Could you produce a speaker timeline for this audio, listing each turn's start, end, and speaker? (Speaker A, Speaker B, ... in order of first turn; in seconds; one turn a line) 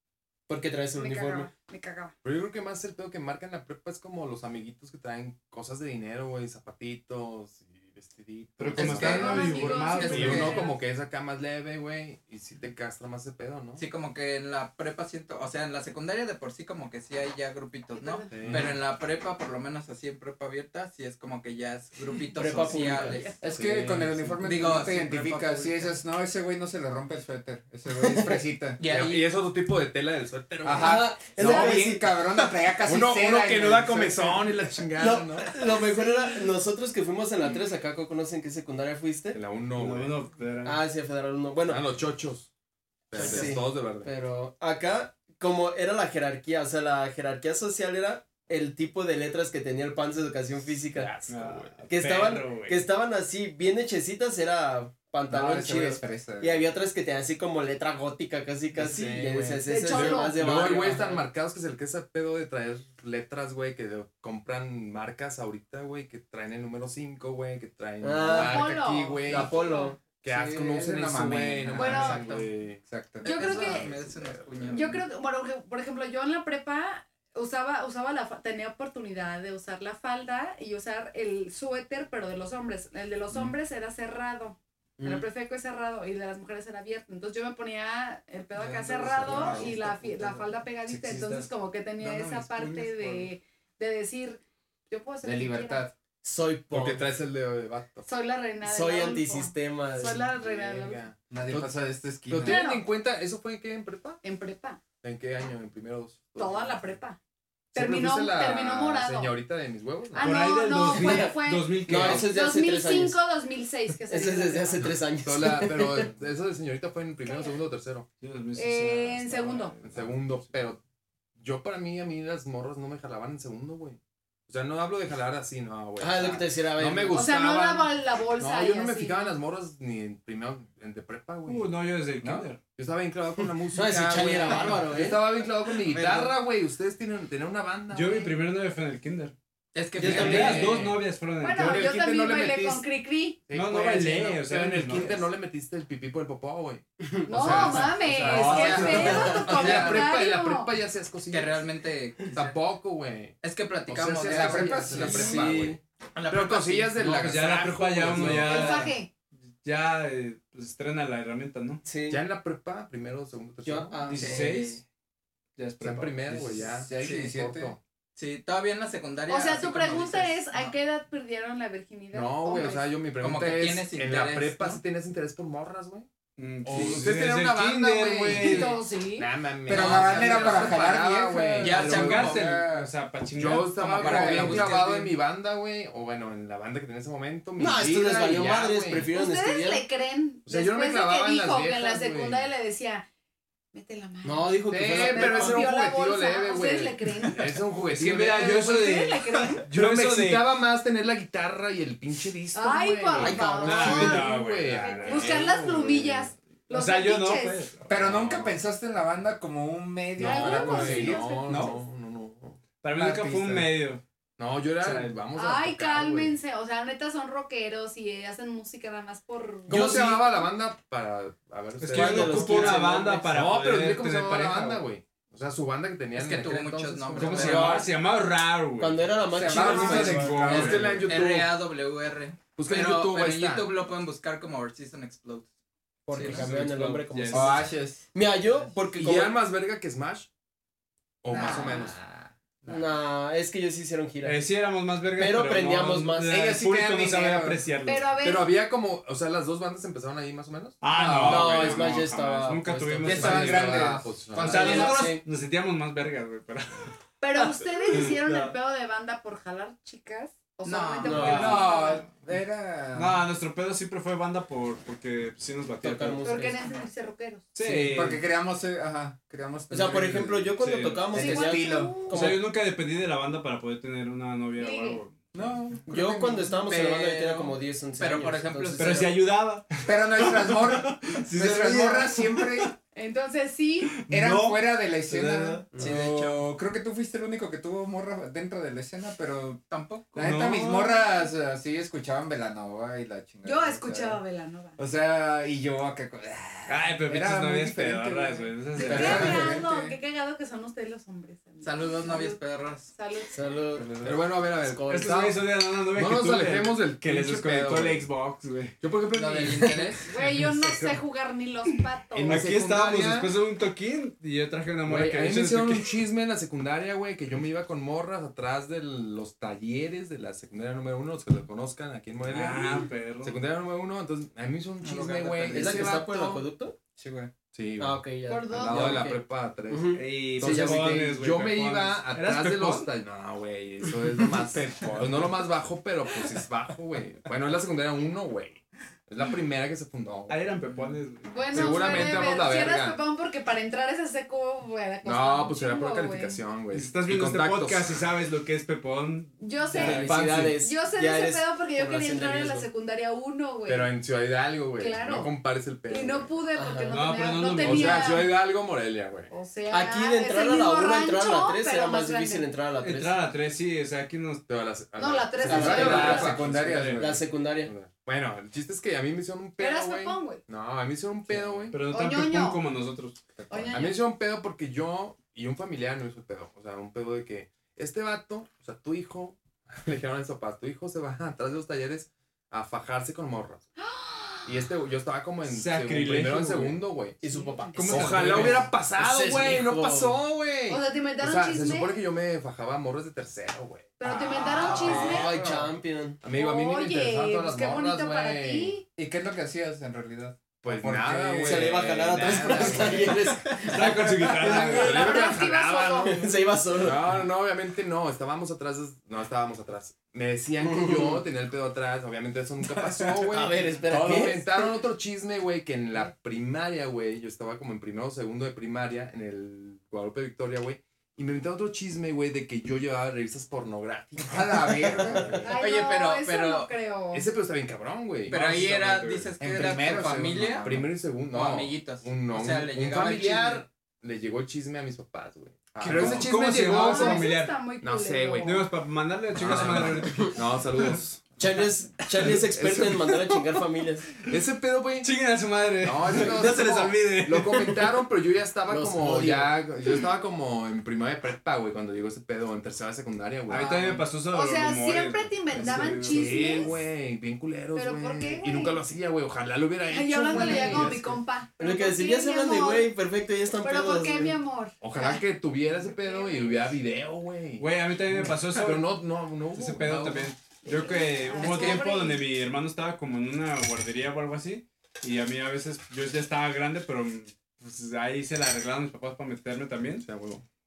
Speaker A: 0.5-1.5
Speaker B: 0.9-2.1
Speaker C: 2.2-13.8
Speaker D: 8.6-10.6
Speaker B: 8.7-10.8
Speaker E: 13.8-23.4
Speaker B: 17.9-18.4
Speaker C: 18.3-18.8
Speaker A: 22.3-23.3
Speaker B: 23.0-23.3
Speaker F: 23.4-28.8
Speaker C: 23.5-24.6
Speaker A: 23.8-24.1
Speaker E: 24.4-25.9
Speaker A: 28.0-28.4
Speaker E: 28.8-29.3
Speaker C: 28.8-31.9
Speaker F: 30.6-34.5
Speaker A: 30.8-32.3
Speaker C: 32.8-35.5
Speaker A: 35.0-39.4
Speaker B: 35.9-36.4
Speaker C: 39.3-40.2
Speaker D: 39.8-40.8
Speaker A: 40.6-41.8
Speaker C: 41.6-42.5
Speaker C: 43.1-44.1
Speaker A: 43.1-51.1
Speaker C: 50.8-51.8
Speaker D: 51.3-52.8
Speaker A: 51.9-61.2
Speaker F: 55.3-56.7
Speaker C: 58.8-69.5
Speaker B: 59.7-60.5
Speaker A: 68.0-68.7
Speaker B: 68.3-70.0
Speaker A: 69.3-70.1
Speaker C: 70.2-75.0
Speaker F: 70.3-73.4
Speaker B: 71.7-72.2
Speaker E: 73.2-75.0
Speaker B: 73.2-73.9
Speaker B: 74.7-95.8
Speaker A: 85.0-85.2
Speaker F: 88.6-89.7
Speaker C: 88.9-89.7
Speaker A: 89.3-90.4
Speaker D: 92.0-93.2
Speaker F: 95.2-95.9
Speaker A: 96.2-97.0
Speaker C: 96.7-98.0
Speaker B: 98.0-101.0
Speaker A: 98.6-100.3
Speaker C: 100.3-101.7
Speaker F: 101.3-102.6
Speaker C: 102.3-104.2
Speaker B: 102.4-102.8
Speaker B: 104.2-104.8
Speaker C: 105.0-107.0
Speaker B: 106.4-107.2
Speaker C: 107.7-110.4
Speaker B: 107.7-109.4
Speaker B: 110.1-114.8
Speaker D: 110.2-112.3
Speaker A: 110.9-111.3
Speaker A: 111.9-113.2
Speaker A: 114.0-116.1
Speaker C: 115.2-118.1
Speaker B: 117.2-117.5
Speaker D: 118.2-120.5
Speaker B: 118.5-119.7
Speaker C: 119.8-120.8
Speaker C: 121.4-138.3
Speaker A: 126.0-127.2
Speaker B: 127.1-129.3
Speaker D: 131.4-132.6
Speaker A: 133.7-135.2
Speaker E: 135.8-136.3
Speaker D: 137.9-139.3
Speaker E: 139.7-140.8
Speaker D: 140.0-141.9
Speaker C: 140.0-141.0
Speaker A: 140.0-140.7
Speaker B: 141.4-143.4
Speaker C: 141.6-142.8
Speaker C: 143.5-151.6
Speaker D: 143.5-145.3
Speaker A: 147.1-147.9
Speaker B: 147.3-150.7
Speaker D: 148.3-149.2
Speaker E: 148.3-150.1
Speaker A: 149.1-149.5
Speaker E: 151.3-152.6
Speaker C: 152.3-158.9
Speaker E: 153.4-155.4
Speaker F: 154.2-155.6
Speaker A: 155.1-155.8
Speaker E: 156.1-157.3
Speaker D: 157.0-158.9
Speaker A: 158.2-158.4
Speaker B: 158.4-159.1
Speaker D: 159.6-161.8
Speaker A: 161.8-162.2
Speaker C: 162.1-164.1
Speaker A: 163.6-164.8
Speaker D: 164.1-164.8
Speaker E: 164.1-164.8
Speaker D: 165.6-166.7
Speaker C: 165.8-167.8
Speaker F: 166.7-167.8
Speaker E: 167.0-167.3
Speaker E: 168.2-170.7
Speaker B: 169.3-172.9
Speaker C: 172.1-176.1
Speaker E: 173.2-174.8
Speaker D: 176.4-178.8
Speaker C: 176.6-182.2
Speaker B: 178.3-179.3
Speaker F: 179.7-182.9
Speaker E: 179.7-180.8
Speaker E: 181.6-182.6
Speaker D: 181.7-184.7
Speaker C: 183.3-189.1
Speaker E: 183.7-185.1
Speaker F: 184.0-184.7
Speaker A: 187.6-189.9
Speaker B: 189.1-193.1
Speaker C: 190.4-192.4
Speaker B: 193.7-197.5
Speaker A: 194.2-195.7
Speaker C: 194.7-199.0
Speaker D: 197.8-200.5
Speaker B: 198.6-199.6
Speaker C: 199.7-206.3
Speaker B: 202.5-204.4
Speaker D: 203.2-205.9
Speaker A: 203.2-203.6
Speaker B: 205.0-207.6
Speaker D: 206.7-208.4
Speaker F: 207.9-211.3
Speaker C: 208.0-208.6
Speaker C: 210.2-212.6
Speaker B: 210.2-211.8
Speaker D: 211.5-211.7
Speaker D: 212.8-214.0
Speaker F: 212.9-213.7
Speaker C: 214.4-216.4
Speaker D: 214.8-215.2
Speaker B: 215.4-220.1
Speaker A: 219.7-220.2
Speaker C: 219.7-227.8
Speaker D: 221.8-224.8
Speaker A: 221.9-223.3
Speaker E: 226.1-227.9
Speaker D: 227.2-231.1
Speaker A: 227.4-227.8
Speaker A: 228.8-230.9
Speaker F: 229.3-231.1
Speaker C: 230.3-231.5
Speaker E: 231.0-235.5
Speaker C: 232.6-233.7
Speaker F: 236.1-236.4
Speaker E: 236.1-236.5
Speaker D: 236.1-237.6
Speaker A: 236.1-239.4
Speaker F: 237.3-238.1
Speaker C: 239.0-240.3
Speaker C: 241.2-242.0
Speaker E: 241.3-242.9
Speaker F: 241.4-241.7
Speaker A: 242.7-244.5
Speaker D: 244.2-248.1
Speaker A: 245.1-246.3
Speaker F: 246.3-247.6
Speaker B: 247.8-248.5
Speaker C: 248.2-252.1
Speaker D: 250.8-258.5
Speaker F: 250.9-251.3
Speaker A: 251.2-253.5
Speaker C: 253.1-255.0
Speaker F: 253.1-254.8
Speaker E: 254.4-255.1
Speaker A: 254.5-255.2
Speaker B: 257.2-262.1
Speaker E: 260.6-261.7
Speaker A: 261.0-261.6
Speaker D: 261.1-261.7
Speaker F: 261.2-263.2
Speaker D: 262.9-266.2
Speaker A: 265.8-266.6
Speaker B: 266.2-267.5
Speaker D: 267.6-268.2
Speaker F: 267.6-270.6
Speaker A: 269.7-272.4
Speaker D: 270.6-271.1
Speaker F: 271.1-272.0
Speaker B: 271.1-272.2
Speaker D: 272.1-275.3
Speaker B: 274.6-275.0
Speaker F: 275.3-277.2
Speaker A: 275.9-279.1
Speaker E: 276.7-279.1
Speaker D: 278.8-282.7
Speaker F: 279.9-282.7
Speaker B: 282.9-283.9
Speaker D: 284.0-285.7
Speaker F: 284.1-289.6
Speaker A: 285.7-286.1
Speaker E: 285.8-286.4
Speaker E: 289.7-290.3
Speaker F: 290.1-294.2
Speaker D: 290.2-291.2
Speaker B: 293.4-294.8
Speaker F: 294.8-299.9
Speaker D: 296.7-299.5
Speaker B: 298.8-303.6
Speaker A: 299.0-299.5
Speaker E: 301.6-302.9
Speaker A: 303.3-305.1
Speaker C: 304.0-308.1
Speaker D: 304.9-308.8
Speaker C: 308.8-310.0
Speaker E: 309.1-310.1
Speaker B: 310.1-312.4
Speaker C: 312.1-313.3
Speaker D: 312.2-316.0
Speaker C: 314.9-326.4
Speaker D: 322.3-323.4
Speaker E: 324.8-326.0
Speaker A: 325.5-326.8
Speaker F: 326.9-327.3
Speaker C: 327.5-340.6
Speaker A: 327.8-331.1
Speaker B: 328.3-329.1
Speaker D: 329.9-332.9
Speaker F: 334.8-335.1
Speaker D: 340.3-342.2
Speaker B: 341.3-346.4
Speaker C: 341.5-343.0
Speaker C: 345.0-348.1
Speaker D: 346.7-350.6
Speaker B: 349.4-353.9
Speaker A: 349.7-352.7
Speaker C: 349.8-350.5
Speaker C: 353.7-356.3
Speaker B: 354.8-358.3
Speaker A: 356.6-356.9
Speaker D: 356.9-358.2
Speaker C: 357.6-359.3
Speaker B: 359.3-362.5
Speaker A: 359.7-363.2
Speaker D: 362.8-364.4
Speaker C: 364.5-366.9
Speaker B: 365.0-366.4
Speaker A: 365.4-366.3
Speaker F: 365.4-367.3
Speaker D: 365.8-367.1
Speaker A: 367.0-367.7
Speaker C: 367.6-371.8
Speaker B: 369.6-370.4
Speaker D: 371.7-373.2
Speaker B: 371.9-372.6
Speaker F: 373.4-373.8
Speaker B: 373.5-374.0
Speaker C: 373.7-383.6
Speaker B: 383.8-384.6
Speaker C: 384.4-387.2
Speaker D: 385.4-386.8
Speaker A: 387.2-390.2
Speaker B: 387.3-387.8
Speaker D: 387.7-388.7
Speaker C: 387.9-395.4
Speaker B: 390.7-392.0
Speaker B: 394.0-395.3
Speaker A: 394.6-396.2
Speaker F: 394.9-395.7
Speaker C: 396.2-398.8
Speaker B: 396.3-398.8
Speaker F: 398.9-403.2
Speaker C: 400.6-402.9
Speaker A: 401.4-404.7
Speaker D: 402.0-405.2
Speaker C: 404.4-406.3
Speaker B: 404.5-406.2
Speaker A: 406.0-407.1
Speaker C: 406.8-425.5
Speaker A: 410.6-411.2
Speaker A: 413.2-414.7
Speaker F: 424.2-425.4
Speaker A: 425.0-425.4
Speaker B: 425.4-427.3
Speaker E: 425.5-426.7
Speaker C: 427.1-428.4
Speaker E: 428.3-430.7
Speaker D: 428.3-429.3
Speaker F: 428.4-430.9
Speaker C: 430.6-438.6
Speaker E: 431.3-433.6
Speaker F: 435.7-436.4
Speaker D: 435.8-437.6
Speaker B: 436.6-438.7
Speaker D: 438.4-440.4
Speaker C: 439.3-441.2
Speaker A: 439.4-440.4
Speaker A: 441.4-444.1
Speaker D: 442.1-442.4
Speaker C: 442.4-443.1
Speaker C: 444.2-445.1
Speaker D: 445.0-447.9
Speaker C: 445.8-454.1
Speaker A: 448.7-449.6
Speaker D: 453.5-456.7
Speaker B: 454.3-456.7
Speaker C: 455.8-461.2
Speaker B: 457.7-458.8
Speaker B: 459.9-462.9
Speaker F: 460.3-460.9
Speaker A: 461.6-464.4
Speaker B: 463.6-465.2
Speaker C: 464.8-470.3
Speaker B: 465.9-466.7
Speaker D: 467.6-469.0
Speaker D: 469.5-480.1
Speaker B: 470.6-472.2
Speaker C: 480.0-480.4